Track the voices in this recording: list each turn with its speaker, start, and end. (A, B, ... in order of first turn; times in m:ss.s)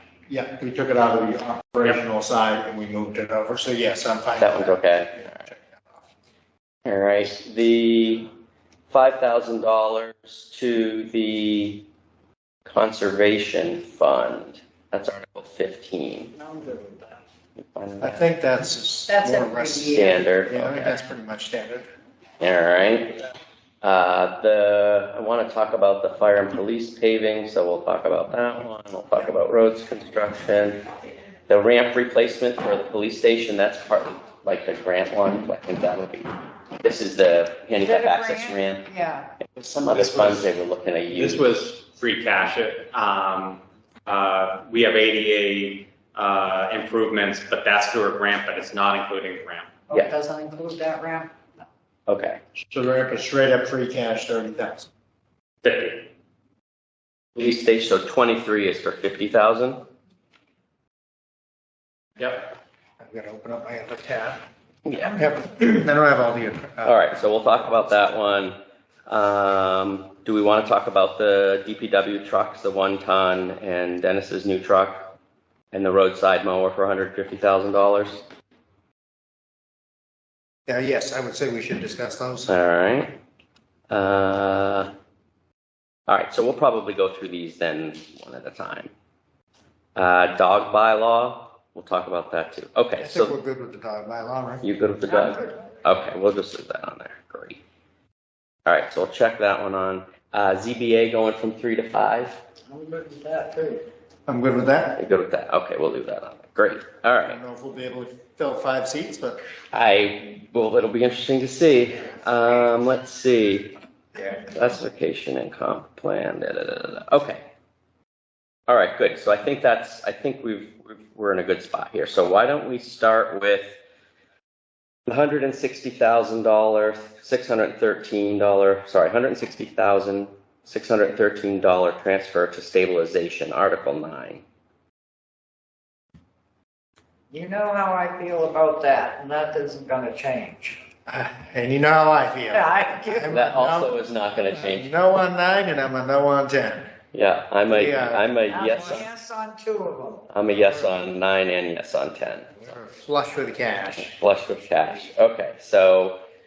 0:00.3-0:06.0 A
0:04.4-0:05.5 B
0:06.8-0:08.3 B
0:08.9-0:11.9 B
0:12.7-0:16.3 B
0:16.4-0:17.2 C
0:17.7-0:18.3 B
0:18.0-0:20.0 A
0:19.1-0:20.2 C
0:19.8-0:21.1 B
0:20.5-0:21.9 A
0:22.4-0:23.2 B
0:23.8-0:30.9 B
0:31.5-0:41.5 B
0:37.8-0:39.3 C
0:41.1-0:49.8 D
0:49.9-0:51.4 C
0:52.1-0:52.4 B
0:52.7-0:54.9 A
0:55.6-0:56.1 D
0:57.4-0:59.8 B
1:03.0-1:04.4 A
1:04.8-1:05.2 B
1:05.1-1:07.0 A
1:06.8-1:15.1 B
1:15.7-1:18.2 B
1:20.7-1:22.5 A
1:22.5-1:23.2 B
1:23.9-1:24.9 B
1:26.1-1:28.9 B
1:30.0-1:33.4 B
1:33.0-1:34.7 A
1:34.6-1:37.6 B
1:38.7-1:42.4 B
1:42.7-1:43.9 C
1:44.3-1:45.0 A
1:45.0-1:47.4 B
1:47.2-1:49.4 A
1:49.7-1:53.8 B
1:54.3-1:57.5 B
1:58.7-2:03.8 B
2:05.1-2:14.4 B
2:17.3-2:20.8 C
2:21.1-2:24.0 A
2:22.5-2:23.3 C
2:23.3-2:24.9 B
2:24.5-2:26.9 A
2:27.1-2:29.1 B
2:27.7-2:28.2 A
2:28.5-2:30.3 C
2:30.3-2:32.7 B
2:32.6-2:34.1 A
2:34.0-2:36.2 B